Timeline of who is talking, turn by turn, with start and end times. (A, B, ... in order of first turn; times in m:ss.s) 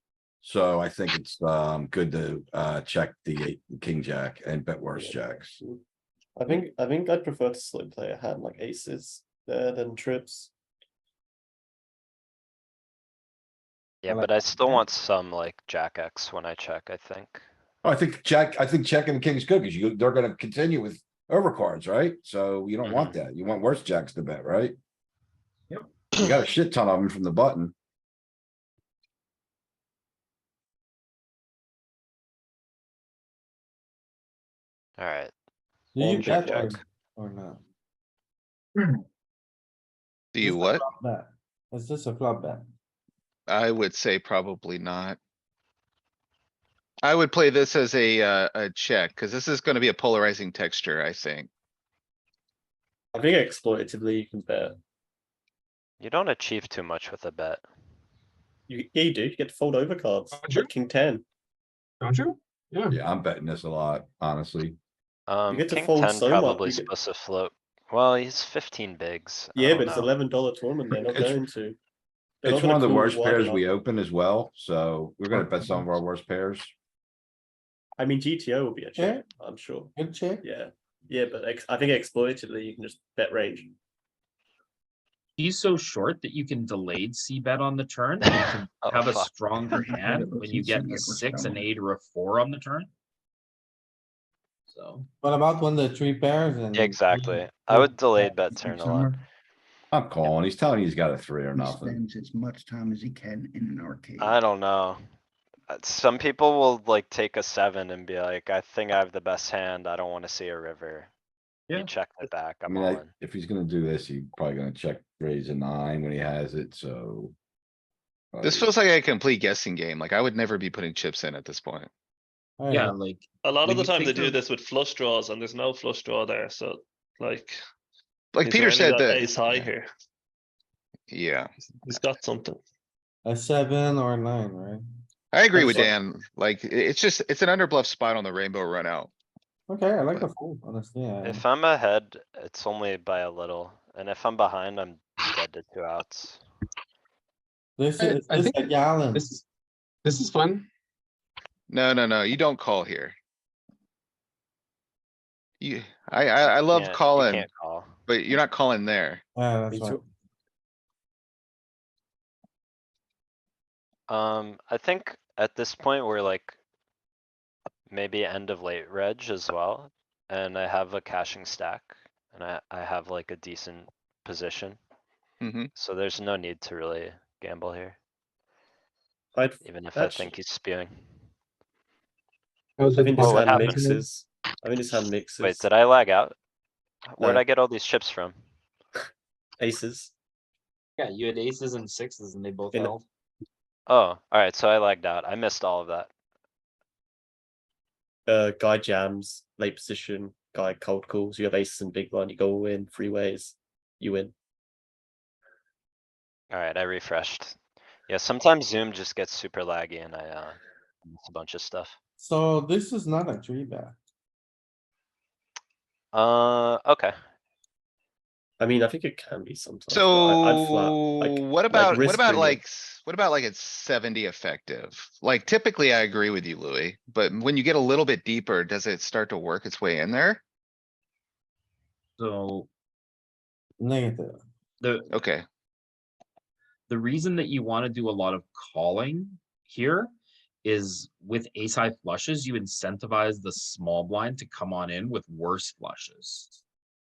0:00.4-0:05.6 A
0:05.0-0:05.8 B
0:06.4-0:10.5 B
0:14.0-0:17.4 C
0:14.1-0:14.8 D
0:17.8-0:24.8 A
0:22.8-0:23.2 C
0:26.1-0:27.7 A
0:35.0-0:35.3 C
0:36.0-0:37.6 D
0:36.0-0:36.6 B
0:36.3-0:36.8 C
0:40.3-0:40.8 E
0:40.4-0:42.7 D
0:43.5-0:45.2 E
0:47.0-0:51.5 E
0:53.1-0:54.8 B
0:56.0-0:57.6 C
0:58.7-1:01.2 B
1:00.3-1:00.7 F
1:02.0-1:03.0 F
1:02.9-1:04.8 A
1:05.3-1:10.1 C
1:05.5-1:06.9 B
1:09.6-1:11.8 B
1:11.1-1:11.4 A
1:12.4-1:13.6 B
1:12.4-1:16.7 A
1:18.0-1:23.7 B
1:19.0-1:19.3 D
1:20.0-1:20.5 D
1:25.4-1:32.9 G
1:28.4-1:29.9 C
1:29.6-1:31.6 H
1:34.7-1:35.1 G
1:35.2-1:37.1 D
1:36.7-1:39.2 C
1:38.4-1:39.2 H
1:39.9-1:42.0 A
1:41.6-1:44.4 H
1:44.2-1:45.0 C
1:45.7-1:51.1 C
1:51.7-1:53.1 C
1:52.7-1:57.4 A
1:58.3-1:58.7 A
1:58.4-2:01.9 E
2:02.6-2:03.0 D
2:02.7-2:04.4 G
2:03.4-2:07.6 I
2:08.3-2:09.7 E
2:08.4-2:09.9 I
2:11.1-2:11.5 E
2:11.9-2:12.6 I
2:13.2-2:14.8 D
2:15.3-2:19.1 E
2:15.5-2:16.0 D
2:19.7-2:21.4 D
2:21.2-2:26.4 C
2:27.8-2:29.3 D
2:28.0-2:29.4 F
2:30.0-2:30.7 F
2:31.7-2:33.2 E
2:35.6-2:37.5 E
2:36.5-2:37.9 C
2:38.1-2:39.2 E
2:39.4-2:40.0 D
2:39.7-2:40.0 B
2:44.1-2:46.6 C
2:47.9-2:54.8 C
2:55.4-2:55.7 E
2:55.8-2:58.0 C
2:59.3-3:00.3 B
2:59.6-3:01.0 C
3:02.8-3:04.0 F
3:02.9-3:05.7 B
3:03.2-3:03.8 C
3:05.4-3:06.4 C
3:07.1-3:08.4 C
3:09.6-3:10.1 B
3:11.0-3:13.0 G
3:13.9-3:16.1 C
3:18.3-3:24.3 B
3:26.5-3:27.6 C
3:28.1-3:32.0 C
3:32.2-3:34.0 D
3:36.1-3:37.1 C
3:38.6-3:42.6 B
3:39.9-3:50.4 E
3:52.2-3:52.7 G
3:53.8-3:54.4 D
3:54.8-3:55.1 G
3:55.1-3:55.4 E
3:56.9-4:00.1 G
4:00.6-4:06.6 G